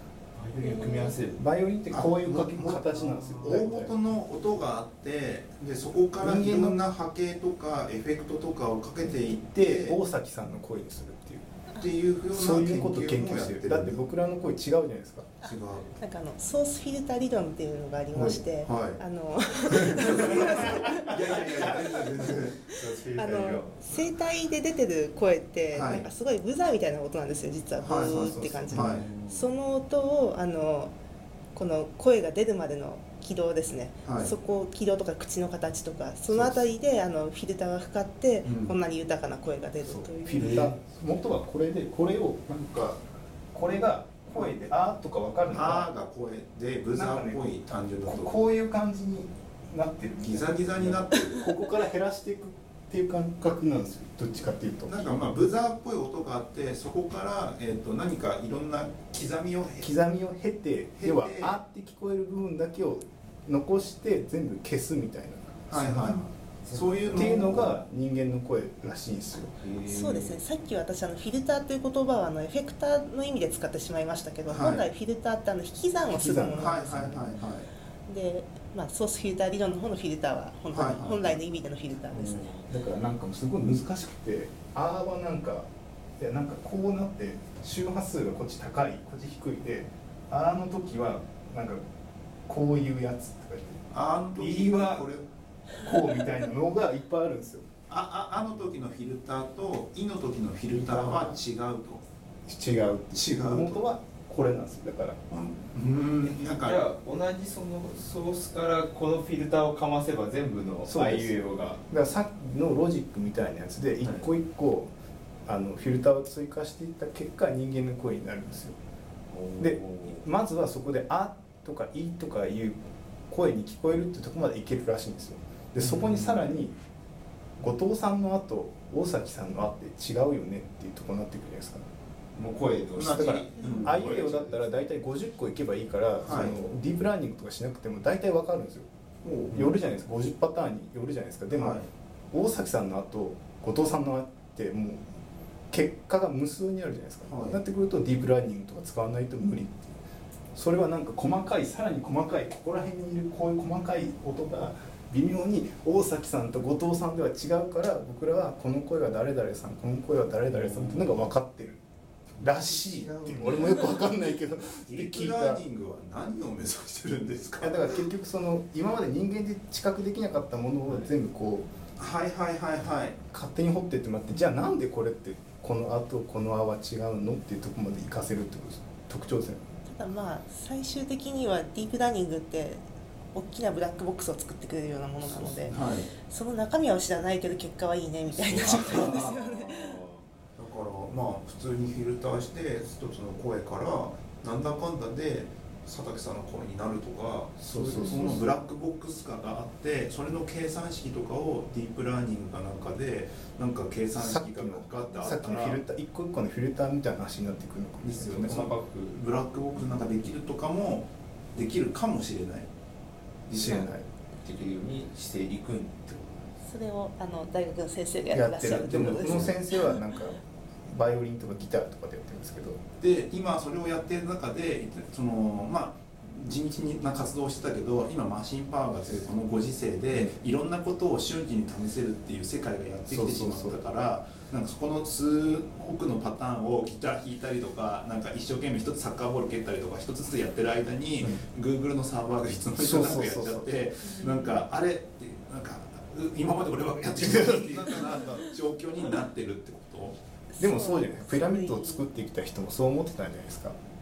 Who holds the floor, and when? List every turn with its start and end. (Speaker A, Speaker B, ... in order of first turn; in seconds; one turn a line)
Speaker A: 0.4-1.4
Speaker B: 0.6-1.2
Speaker C: 1.4-3.9
Speaker D: 1.9-10.0
Speaker A: 3.0-3.6
Speaker C: 6.2-6.8
Speaker C: 9.0-11.5
Speaker D: 11.8-14.0
Speaker C: 12.3-15.3
Speaker D: 15.4-15.9
Speaker B: 15.4-21.4
Speaker D: 18.1-19.0
Speaker D: 19.7-22.6
Speaker A: 20.7-23.8
Speaker B: 22.7-30.9
Speaker D: 25.7-26.1
Speaker D: 27.8-29.1
Speaker A: 28.7-29.4
Speaker B: 31.6-40.7
Speaker D: 34.0-34.3
Speaker D: 36.3-36.6
Speaker D: 38.5-38.8
Speaker C: 39.8-43.0
Speaker A: 40.4-40.8
Speaker C: 43.5-45.9
Speaker D: 45.5-48.4
Speaker C: 47.0-47.5
Speaker C: 48.0-55.3
Speaker D: 50.2-51.5
Speaker D: 54.9-59.9
Speaker C: 59.8-66.2
Speaker D: 61.0-61.6
Speaker D: 65.7-67.8
Speaker A: 66.6-67.8
Speaker C: 67.1-69.6
Speaker A: 69.6-70.4
Speaker B: 69.9-76.9
Speaker D: 74.5-74.9
Speaker C: 76.1-77.4
Speaker D: 76.6-77.7
Speaker B: 78.1-82.6
Speaker D: 80.7-81.4
Speaker C: 82.1-85.7
Speaker C: 86.2-91.8
Speaker C: 92.5-95.1
Speaker D: 93.9-95.2
Speaker C: 95.8-97.7
Speaker D: 97.9-102.0
Speaker C: 100.8-101.4
Speaker C: 102.5-105.2
Speaker D: 103.1-103.9
Speaker D: 105.3-106.9
Speaker A: 106.3-111.8
Speaker C: 110.9-114.9
Speaker C: 115.5-118.8
Speaker A: 119.3-120.2
Speaker C: 119.6-126.8
Speaker A: 125.8-126.6
Speaker C: 127.6-131.9
Speaker A: 132.3-134.7
Speaker D: 133.0-134.3
Speaker C: 133.1-138.9
Speaker D: 136.2-136.6
Speaker D: 139.2-139.6
Speaker C: 139.5-141.8
Speaker D: 141.6-141.9
Speaker C: 142.3-145.1
Speaker C: 145.7-149.9
Speaker D: 147.3-147.6
Speaker C: 150.6-161.8
Speaker A: 160.5-161.3
Speaker C: 162.4-165.6
Speaker D: 162.4-164.0
Speaker D: 164.9-167.9
Speaker C: 167.6-171.7
Speaker D: 172.0-173.2
Speaker C: 173.3-179.6
Speaker B: 179.9-190.0
Speaker D: 185.3-186.1
Speaker A: 188.4-190.2
Speaker D: 188.6-189.3
Speaker D: 190.6-205.8
Speaker C: 197.6-198.4
Speaker A: 197.7-198.4
Speaker C: 204.2-208.7
Speaker D: 208.0-212.7
Speaker A: 208.4-209.2
Speaker D: 213.5-213.9
Speaker C: 213.6-214.1
Speaker A: 214.4-216.5
Speaker B: 216.6-219.6
Speaker C: 218.3-222.8
Speaker D: 223.0-250.2
Speaker C: 233.1-233.8
Speaker C: 242.8-243.9
Speaker B: 244.1-244.4
Speaker C: 247.2-248.2
Speaker B: 250.5-252.0
Speaker C: 250.6-253.8